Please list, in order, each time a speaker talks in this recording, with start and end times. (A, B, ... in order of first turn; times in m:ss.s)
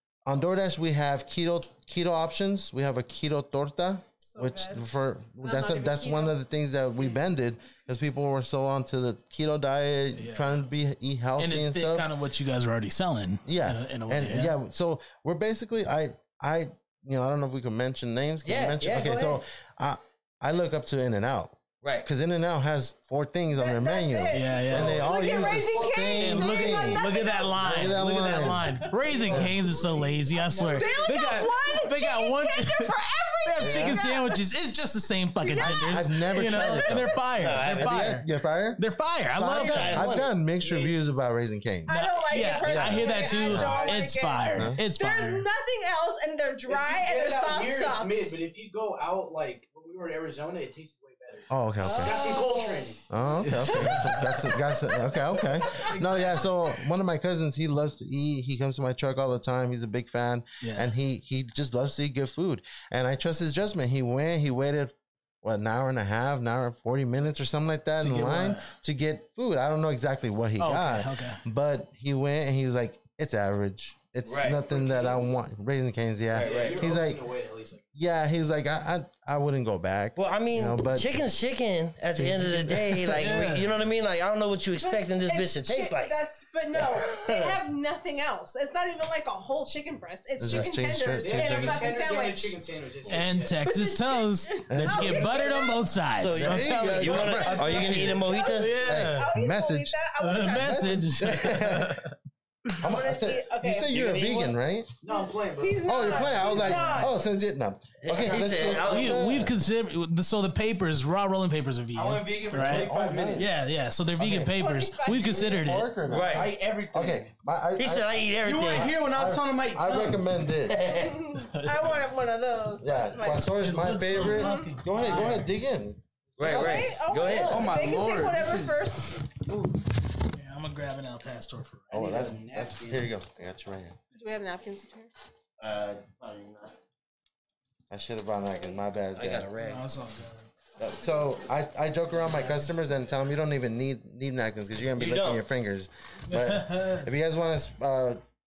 0:00.3-0:12.1 A
0:04.2-0:04.8 B
0:05.4-0:06.4 B
0:10.2-0:10.5 C
0:11.4-0:14.6 C
0:13.5-0:29.5 A
0:18.4-0:19.4 D
0:21.8-0:22.1 D
0:23.6-0:27.9 B
0:24.3-0:25.1 C
0:25.2-0:26.1 E
0:26.1-0:38.3 C
0:28.7-0:29.4 B
0:29.0-0:31.7 E
0:30.6-0:34.4 B
0:33.6-0:34.0 A
0:35.4-0:37.2 B
0:35.6-0:38.8 A
0:37.4-0:38.2 D
0:38.8-0:40.1 C
0:39.3-0:41.9 A
0:39.5-0:40.3 D
0:40.6-0:40.9 E
0:41.9-0:48.4 B
0:41.9-0:45.5 C
0:42.5-0:43.7 A
0:43.1-0:44.1 E
0:44.5-0:44.8 A
0:46.7-0:53.2 E
0:51.5-0:52.2 A
0:51.8-0:53.0 B
0:53.1-1:17.2 A
0:53.4-0:54.7 C
0:53.7-0:53.9 B
0:54.7-0:55.9 B
0:55.7-0:56.4 C
0:55.8-0:56.2 E
1:00.6-1:00.9 C
1:08.0-1:08.7 C
1:10.6-1:11.4 C
1:14.2-1:14.6 D
1:14.5-1:15.3 E
1:16.3-1:16.8 D
1:16.3-1:17.8 E
1:17.9-1:21.1 A
1:20.2-1:26.2 D
1:22.2-1:23.4 A
1:23.2-1:23.7 C
1:24.8-1:32.6 B
1:27.1-1:27.4 D
1:30.4-1:31.9 A
1:31.2-1:33.7 E
1:33.1-1:39.4 C
1:33.7-1:35.8 B
1:34.7-1:35.3 A
1:36.2-1:38.7 D
1:36.3-1:38.2 A
1:37.4-1:41.0 B
1:38.8-1:40.0 A
1:40.2-1:42.2 C
1:40.5-1:42.0 A
1:42.8-1:44.9 A
1:42.8-1:44.5 B
1:45.0-1:47.1 E
1:45.1-1:47.1 B
1:45.8-1:49.6 A
1:48.0-1:49.3 D
1:48.2-1:48.9 E
1:48.8-1:55.9 C
1:51.9-1:53.5 E
1:52.6-1:53.5 A
1:54.2-1:54.6 A
1:54.5-1:55.6 B
1:55.3-1:58.2 A
1:56.1-1:56.5 D
1:56.2-1:57.3 E
1:57.8-1:59.0 D
1:58.4-2:00.2 E
1:58.8-2:00.8 A
2:00.7-2:01.2 D
2:00.8-2:03.5 B
2:01.5-2:02.1 C
2:02.8-2:06.0 A
2:03.3-2:05.5 C
2:04.2-2:04.7 B
2:06.4-2:07.7 D
2:06.4-2:09.5 B
2:06.5-2:06.8 A
2:07.3-2:09.0 E
2:10.3-2:12.3 C
2:11.9-2:14.0 A
2:11.9-2:13.1 E
2:14.1-2:15.1 B
2:15.6-2:16.8 D
2:17.9-2:19.5 A
2:19.1-2:19.8 D
2:19.6-2:20.5 C
2:20.8-2:28.2 A
2:25.0-2:25.4 D
2:26.3-2:27.1 C